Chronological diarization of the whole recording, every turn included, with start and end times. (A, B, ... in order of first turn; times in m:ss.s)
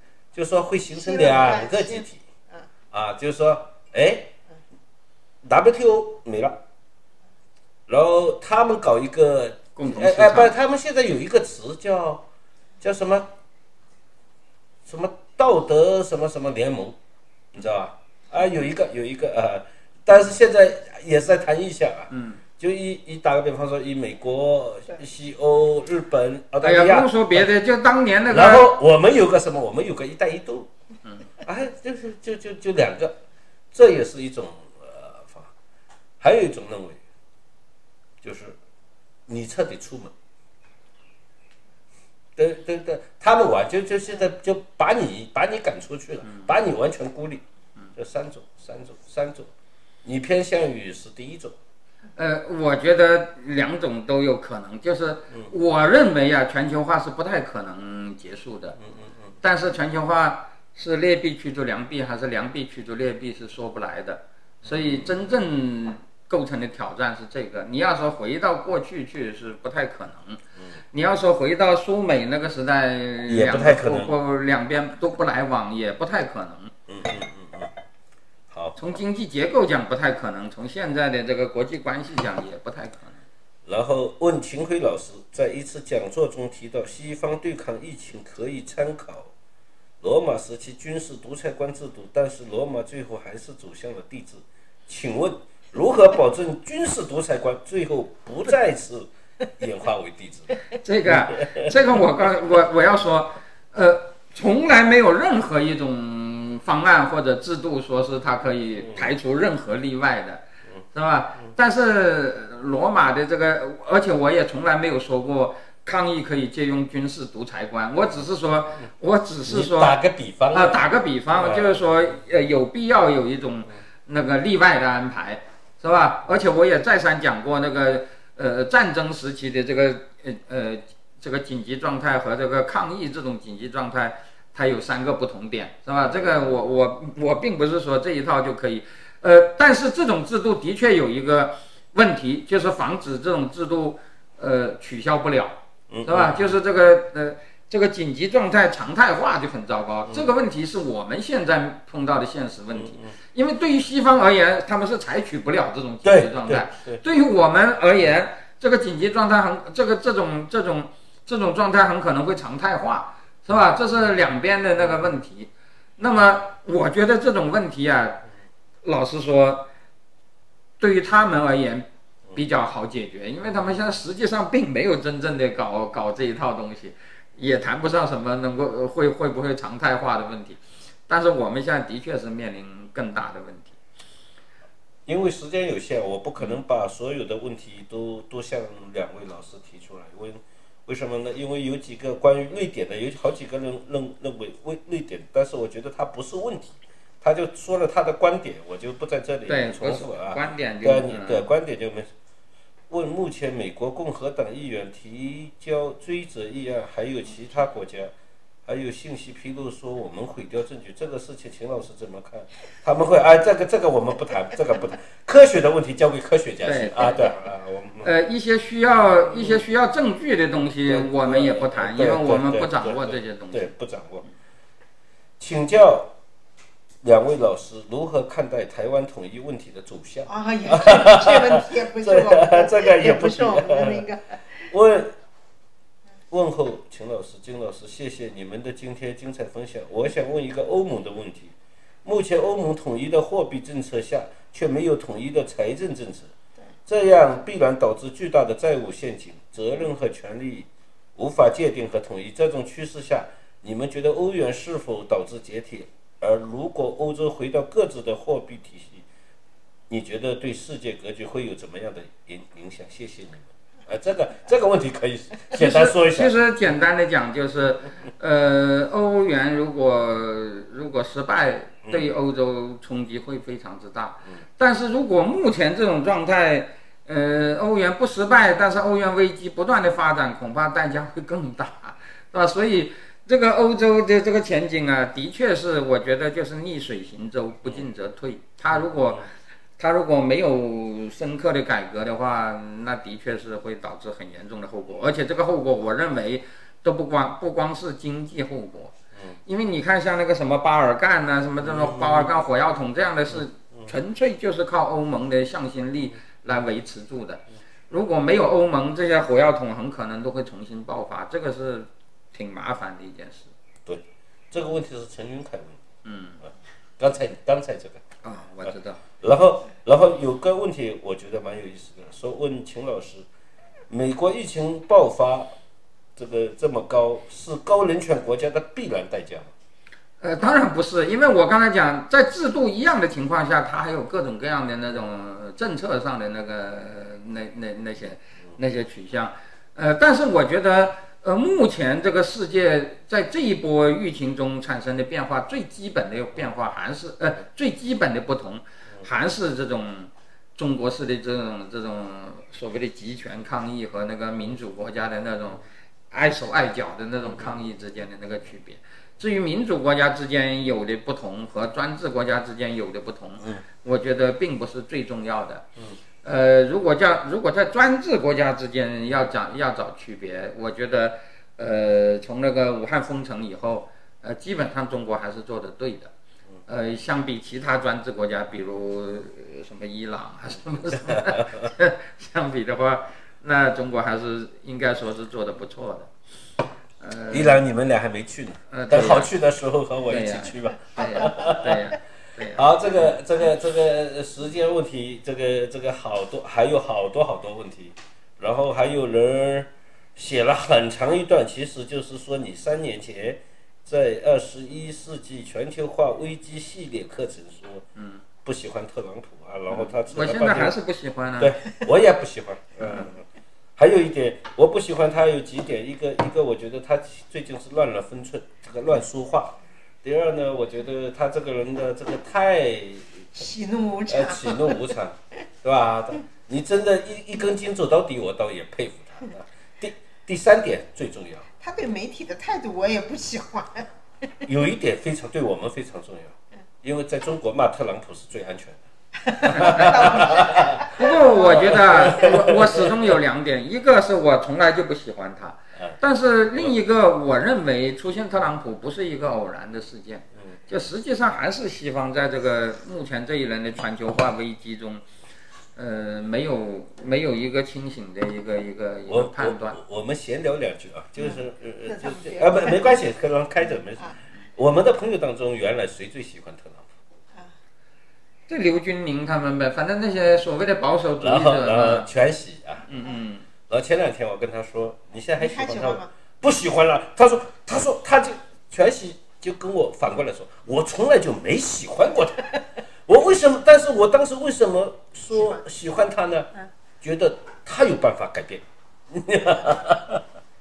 0:00.3-0:02.2 A
0:00.9-0:02.6 B
0:02.9-0:04.3 A
0:05.4-0:06.6 A
0:07.9-0:12.2 A
0:09.8-0:10.5 C
0:12.8-0:13.3 A
0:14.8-0:17.0 A
0:17.5-0:27.5 A
0:22.1-0:22.4 C
0:26.6-0:28.7 C
0:28.3-0:30.7 A
0:31.4-0:33.1 A
0:33.7-0:35.5 A
0:36.2-0:37.0 A
0:38.2-0:38.6 A
0:39.3-0:40.1 A
0:42.4-0:47.4 A
0:48.0-0:49.5 A
0:50.0-0:51.6 A
0:52.2-0:58.8 C
0:58.8-0:59.1 A
0:59.4-1:10.4 C
1:04.6-1:05.1 A
1:10.9-1:16.7 C
1:13.3-1:14.1 A
1:16.9-1:17.7 A
1:18.5-1:18.8 A
1:18.8-1:23.2 C
1:23.6-1:29.3 A
1:30.0-1:41.7 A
1:40.8-1:59.9 C
1:59.5-2:00.8 A
2:00.5-2:48.2 C
2:01.3-2:01.8 A
2:25.9-2:26.5 A
2:32.7-2:33.1 A
2:36.0-2:37.0 A
2:48.8-2:49.7 C
2:50.8-3:03.8 C
3:05.1-3:22.1 A
3:19.5-3:21.5 C
3:22.9-3:28.1 A
3:28.7-3:38.1 A
3:36.6-3:37.3 C
3:38.0-3:43.7 C
3:39.4-3:39.6 A
3:40.8-3:44.2 A
3:45.4-3:46.1 A
3:47.0-3:54.0 A
3:50.3-3:54.4 B
3:54.7-3:55.1 A
3:56.3-4:06.3 A
4:06.9-4:19.0 A
4:19.9-4:26.3 A
4:25.5-4:49.2 C
4:49.8-4:59.0 C
4:59.5-5:13.5 C
5:01.6-5:02.3 A
5:13.8-5:15.8 A
5:16.0-5:16.4 C
5:17.0-5:18.0 A
5:18.2-5:19.0 C
5:19.2-5:23.2 A
5:23.9-5:25.5 A
5:26.2-5:29.5 A
5:30.2-6:05.6 C
6:06.2-6:16.1 C
6:16.7-6:26.1 C
6:21.1-6:21.4 A
6:27.0-6:27.6 C
6:27.3-6:31.8 A
6:28.7-6:29.3 C
6:30.0-6:32.6 C
6:32.5-6:47.8 A
6:47.9-6:48.2 C
6:48.4-6:50.7 A
6:49.7-6:51.5 C
6:51.4-6:53.2 A
6:52.8-6:53.1 C
6:53.8-7:03.4 A
7:03.4-7:04.9 B
7:04.1-7:11.4 A
7:11.6-7:13.9 B
7:14.4-7:18.8 A
7:19.2-7:21.4 B
7:19.3-7:23.1 A
7:19.5-7:35.0 C
7:35.8-7:39.8 C
7:39.1-7:46.9 A
7:41.2-7:43.0 B
7:48.5-7:52.1 C
7:51.2-7:52.8 A
7:52.9-7:53.4 C
7:53.7-8:02.5 A
7:55.4-7:56.1 B
8:03.1-8:06.5 A
8:05.3-8:05.6 B
8:07.0-8:10.2 A